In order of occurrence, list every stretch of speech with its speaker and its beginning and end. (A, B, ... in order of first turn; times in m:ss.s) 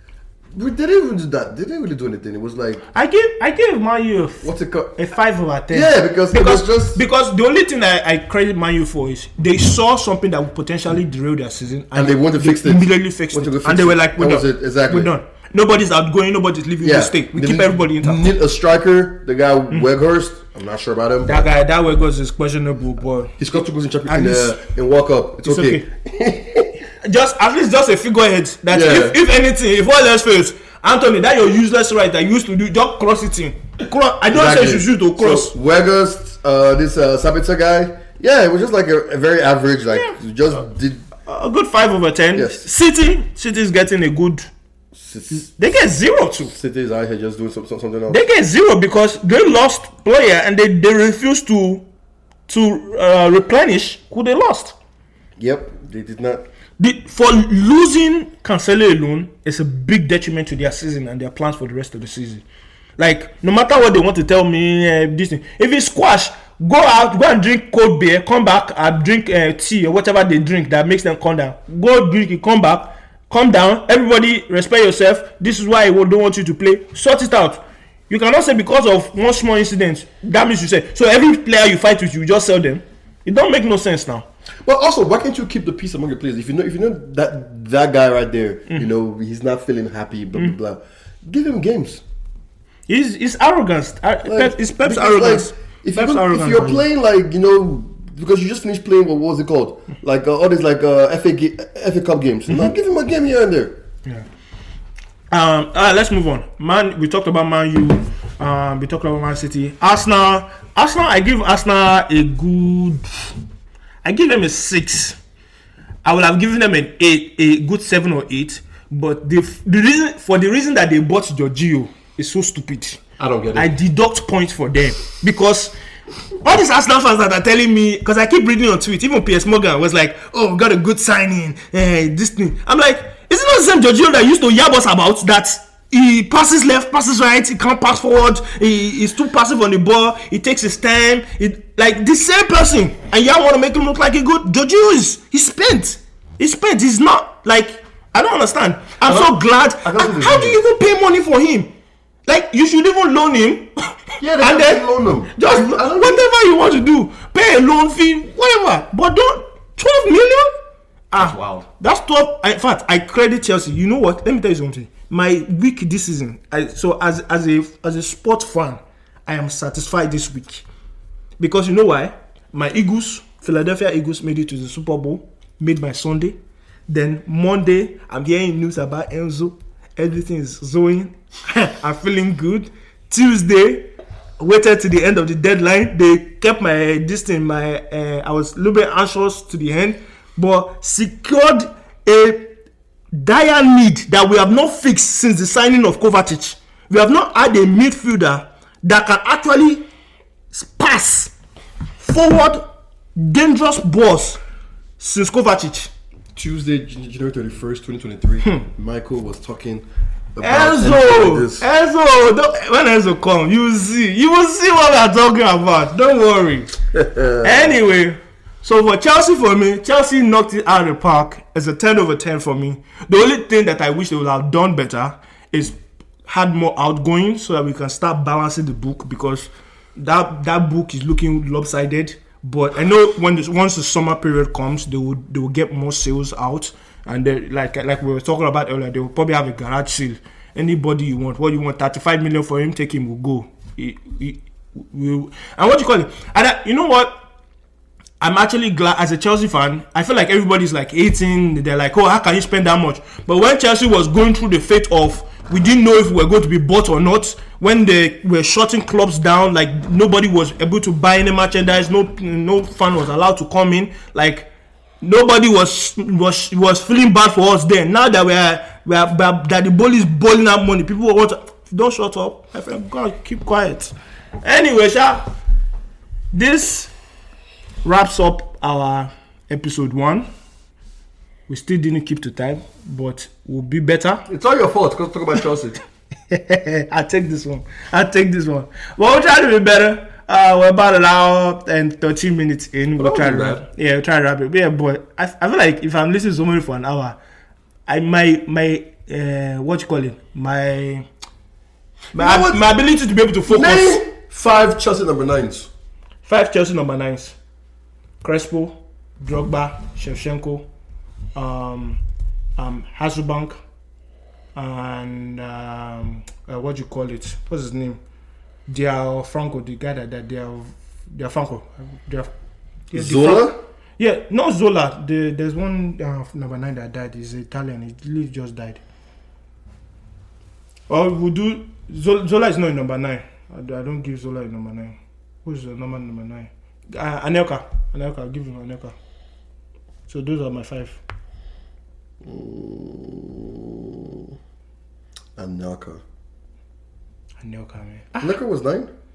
0:00.5-0:02.8 A
0:02.9-0:18.3 B
0:04.4-0:04.9 A
0:05.7-0:07.0 A
0:11.9-0:15.1 A
0:16.8-0:21.4 A
0:21.2-0:23.4 B
0:23.4-0:26.8 A
0:24.1-0:24.6 B
0:25.4-0:25.8 B
0:27.0-0:35.5 B
0:28.7-0:29.2 A
0:34.3-0:41.0 A
0:39.9-0:40.2 B
0:41.3-0:44.5 B
0:42.3-0:42.6 A
0:44.9-0:45.5 A
0:45.3-0:46.5 B
0:46.5-0:48.2 A
0:48.1-0:51.8 B
0:52.5-0:54.7 B
0:55.4-0:56.5 A
0:56.8-1:02.4 B
1:03.0-1:24.2 B
1:24.6-1:32.0 A
1:32.9-1:36.8 B
1:34.2-1:43.8 A
1:45.3-1:53.1 B
1:54.0-1:55.2 B
1:56.0-2:03.0 B
2:03.2-2:03.7 A
2:03.5-2:05.7 B
2:06.4-2:31.7 B
2:29.0-2:30.6 A
2:32.3-2:40.5 B
2:34.2-2:36.2 A
2:41.1-2:50.6 B
2:41.2-2:41.6 A
2:51.4-2:56.4 B
2:56.9-3:12.5 B
3:13.1-3:19.8 B
3:20.5-3:21.3 B
3:22.0-3:24.4 B
3:25.0-3:25.9 B
3:26.3-3:29.8 A
3:30.4-3:31.6 A
3:30.4-3:36.7 B
3:36.9-3:37.7 A
3:37.4-4:07.1 B
4:08.2-4:24.5 B
4:25.0-4:35.3 B
4:36.3-4:36.9 B
4:37.8-4:40.2 B
4:41.5-4:44.2 B
4:44.3-4:45.8 A
4:46.3-4:57.2 B
4:53.0-4:53.6 A
4:57.9-5:01.1 B
5:02.1-5:04.0 B
5:02.1-5:02.6 A
5:03.5-5:05.7 A
5:06.2-5:07.4 B
5:08.2-5:10.6 B
5:11.4-5:12.0 B
5:12.6-5:13.6 B
5:14.6-5:18.0 B
5:18.7-5:22.3 B
5:22.9-5:28.8 B
5:22.9-5:23.6 A
5:30.9-5:38.9 B
5:40.1-5:41.0 B
5:42.2-5:44.3 A
5:45.4-5:46.0 A
5:47.4-5:48.4 B
5:48.2-5:48.9 A